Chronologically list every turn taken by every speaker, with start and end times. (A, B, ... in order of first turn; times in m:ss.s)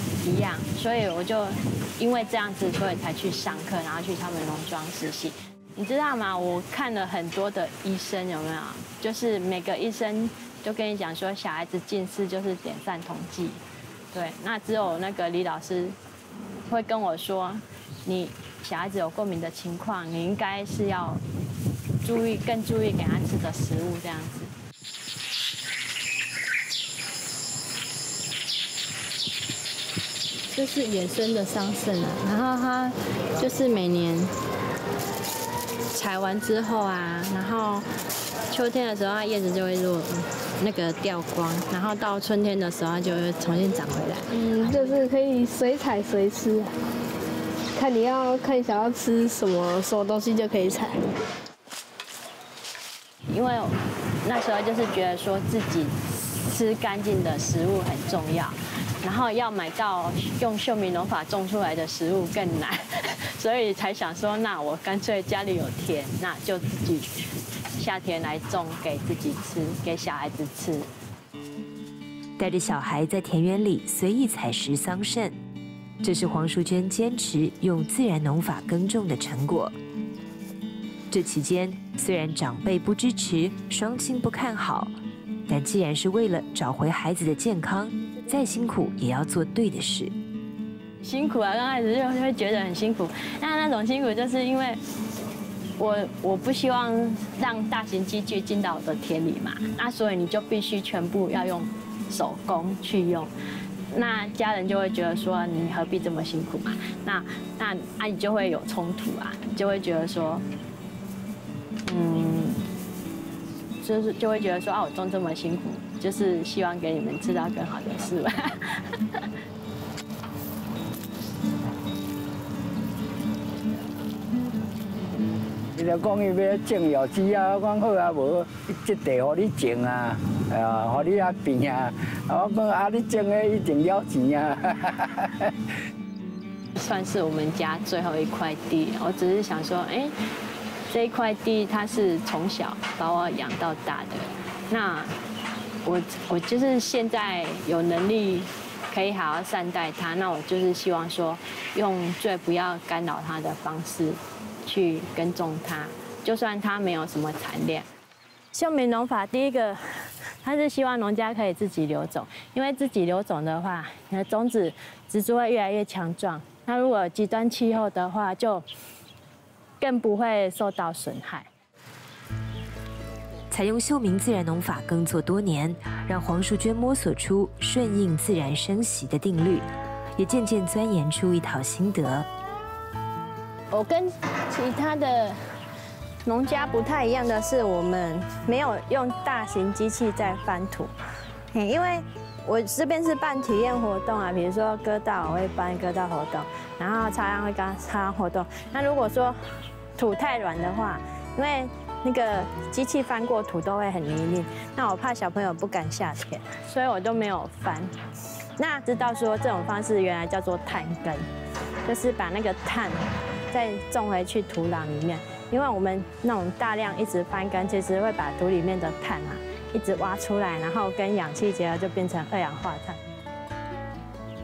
0:00.2-0:13.6 A
0:14.1-0:15.9 A
0:16.7-0:21.2 A
0:22.0-0:24.5 A
0:30.5-0:34.3 A
0:35.9-0:37.8 A
0:38.5-0:44.9 A
0:44.3-0:46.7 B
0:47.8-0:51.1 B
0:53.3-1:07.1 A
1:07.8-1:10.9 A
1:12.4-1:15.3 C
1:16.0-1:19.7 C
1:21.1-1:24.9 C
1:25.5-1:30.1 C
1:31.0-1:34.8 A
1:35.8-1:43.3 A
1:43.9-1:50.4 A
1:51.8-1:52.6 A
1:53.8-1:59.2 A
2:05.8-2:15.5 D
2:16.8-2:20.1 A
2:20.9-2:25.1 A
2:25.8-2:37.9 A
2:38.5-2:48.6 A
2:49.8-2:51.5 A
2:53.5-3:02.3 C
3:03.7-3:05.4 A
3:06.2-3:10.9 A
3:11.5-3:19.4 A
3:20.0-3:27.9 A
3:28.6-3:31.2 A
3:31.8-3:43.0 A